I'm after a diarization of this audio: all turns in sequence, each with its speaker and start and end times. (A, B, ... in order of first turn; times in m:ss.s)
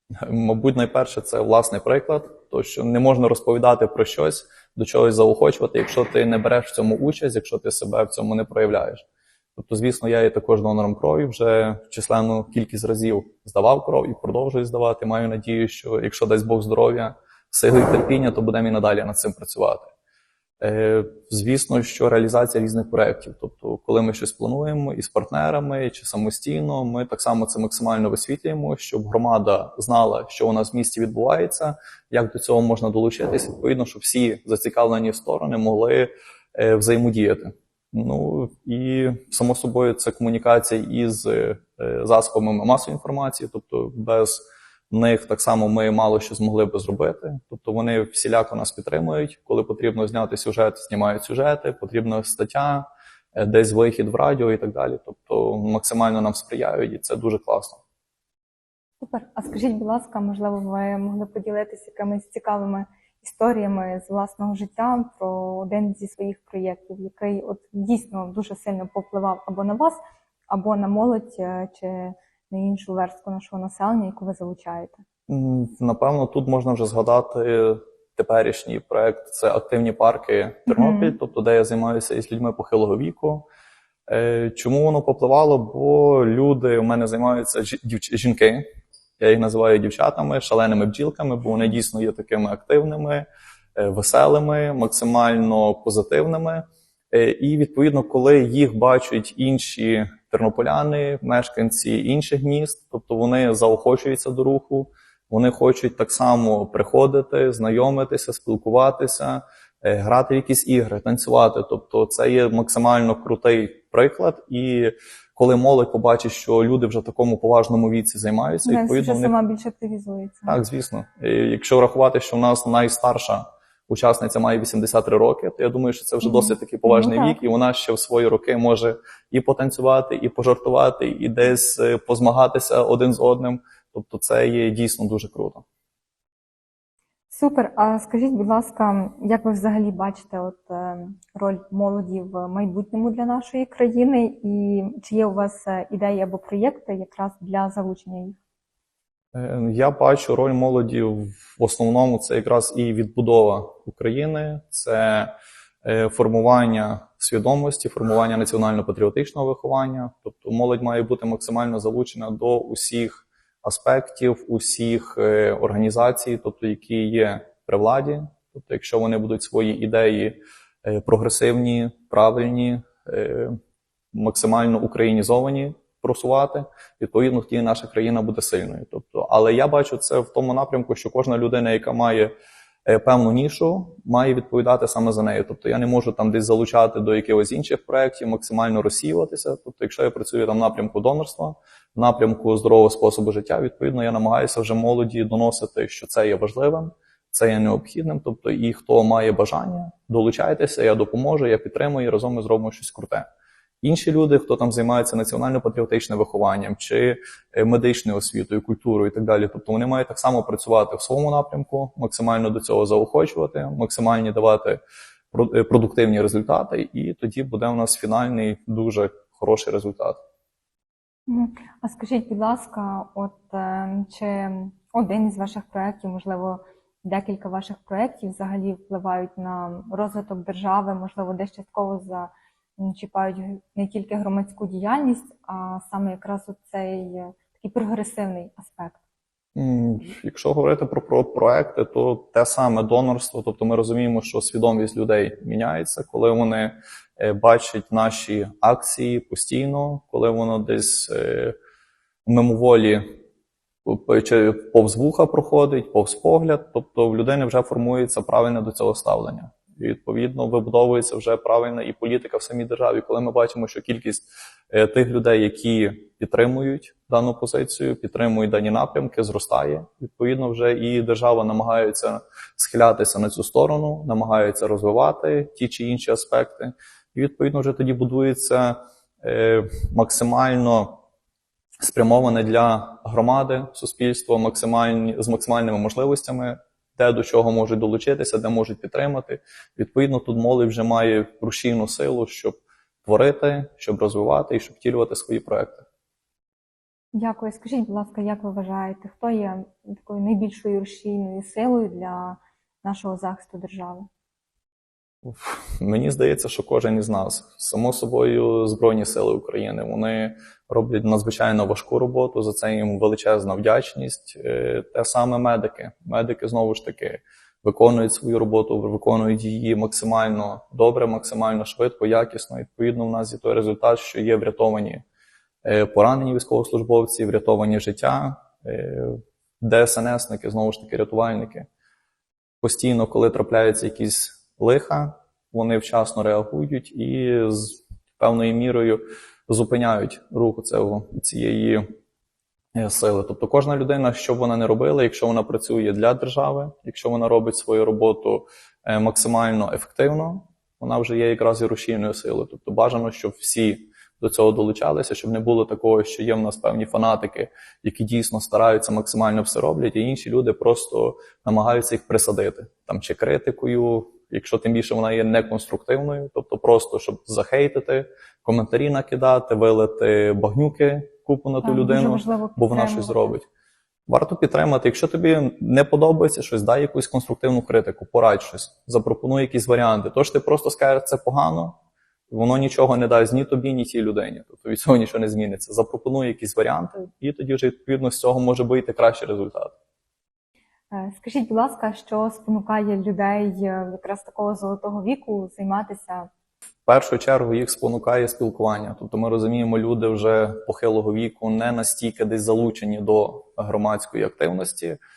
0:00.2-0:09.0 A
0:09.6-0:19.9 A
0:20.6-0:57.8 A
0:59.0-1:10.0 B
1:10.5-1:15.0 B
1:15.3-1:23.5 A
1:20.7-1:21.2 B
1:24.1-1:28.6 A
1:29.2-1:59.3 A
1:58.6-2:00.6 B
2:00.5-2:15.6 A
2:06.2-2:07.4 B
2:17.3-2:28.4 B
2:29.3-2:35.3 A
2:35.8-2:53.6 A
2:54.1-3:02.3 A
3:02.8-3:23.2 A
3:23.8-3:34.8 A
3:35.3-3:40.2 A
3:41.3-3:59.0 B
3:59.5-4:11.5 A
4:12.2-4:13.1 A
4:13.8-4:41.0 A
4:41.8-4:55.9 A
4:57.1-5:04.1 B
5:05.2-5:25.0 A
5:25.6-5:31.7 A
5:32.6-5:41.8 A
5:42.7-6:13.4 A
6:11.6-6:13.3 B
6:14.1-6:21.8 A
6:22.3-6:29.7 A
6:30.9-6:36.3 B
6:36.8-6:45.0 A